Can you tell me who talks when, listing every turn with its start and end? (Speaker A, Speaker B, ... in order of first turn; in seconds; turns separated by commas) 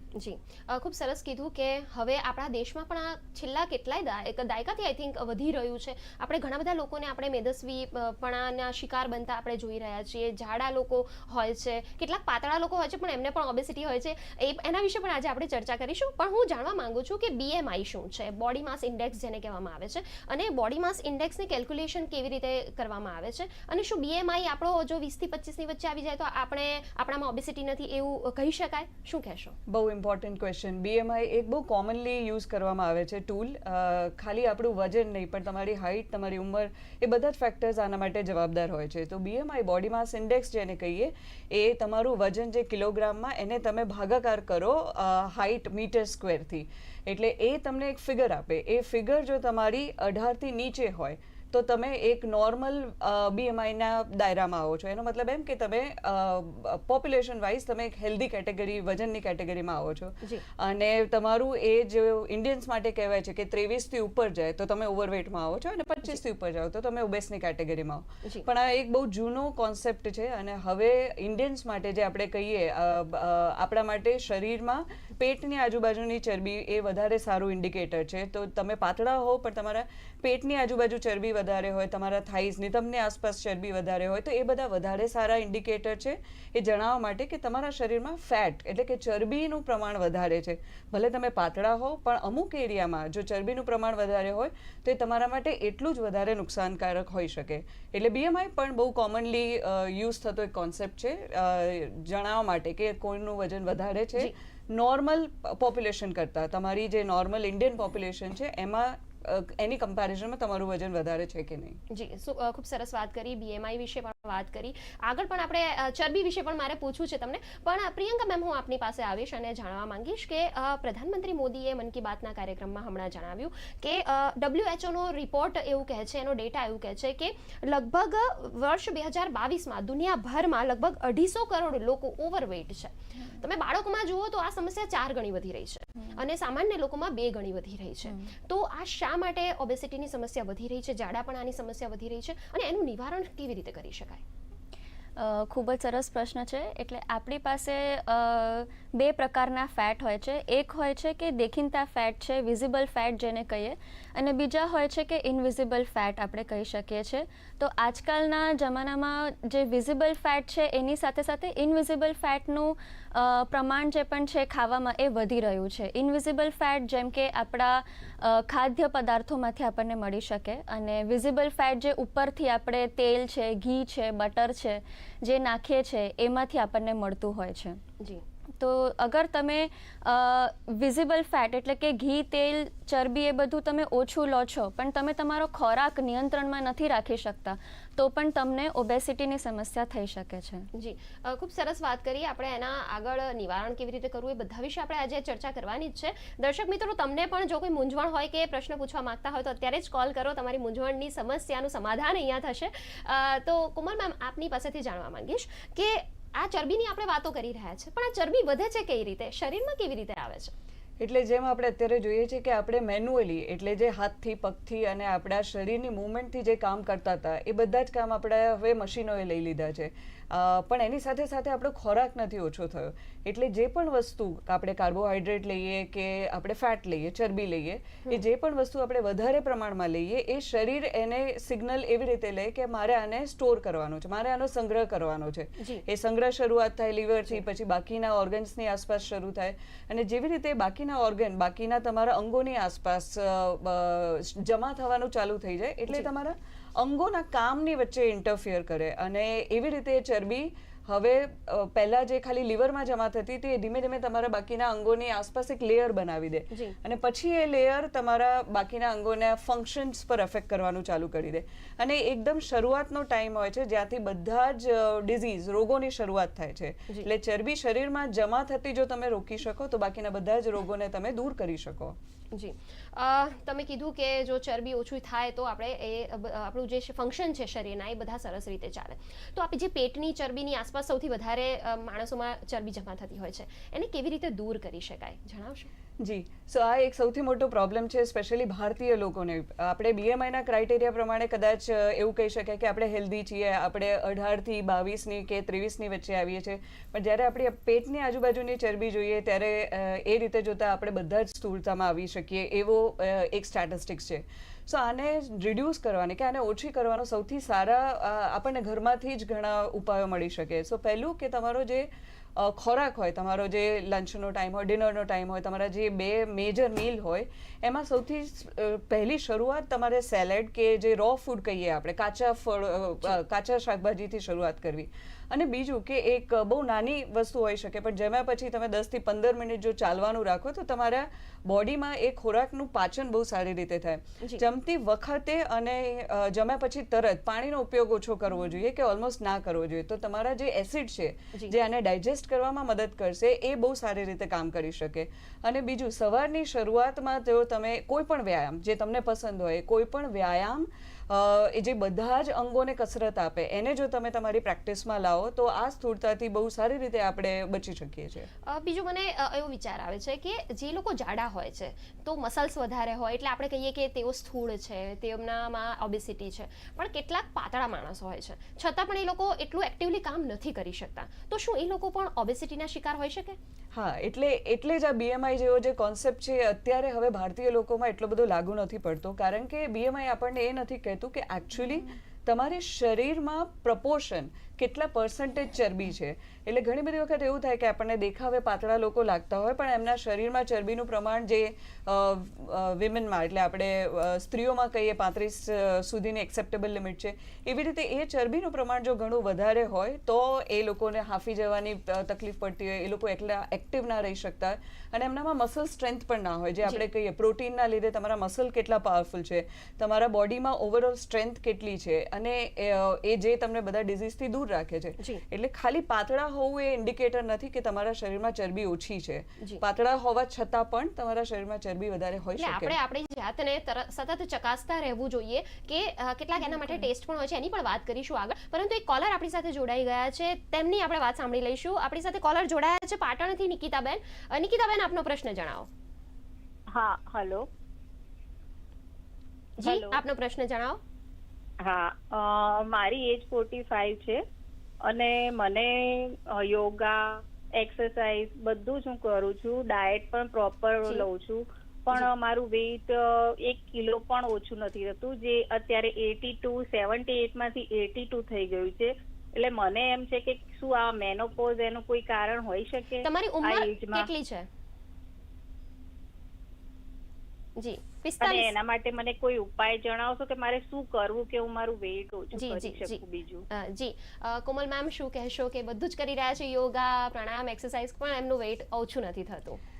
Speaker A: 0.1-29.6, Speaker B: 29.7-111.8, Speaker A: 111.9-144.2, Speaker C: 138.1-138.3, Speaker C: 145.2-177.8, Speaker C: 178.6-190.7, Speaker A: 190.7-210.5, Speaker B: 211.0-271.9, Speaker A: 272.3-285.7, Speaker B: 286.0-358.3, Speaker A: 358.4-373.4, Speaker B: 373.7-422.8, Speaker A: 422.4-435.7, Speaker D: 436.7-437.4, Speaker A: 439.6-440.8, Speaker D: 439.6-440.0, Speaker D: 441.6-444.2, Speaker D: 444.9-464.1, Speaker A: 463.0-464.5, Speaker A: 467.6-468.5, Speaker D: 468.2-473.4, Speaker A: 472.3-479.6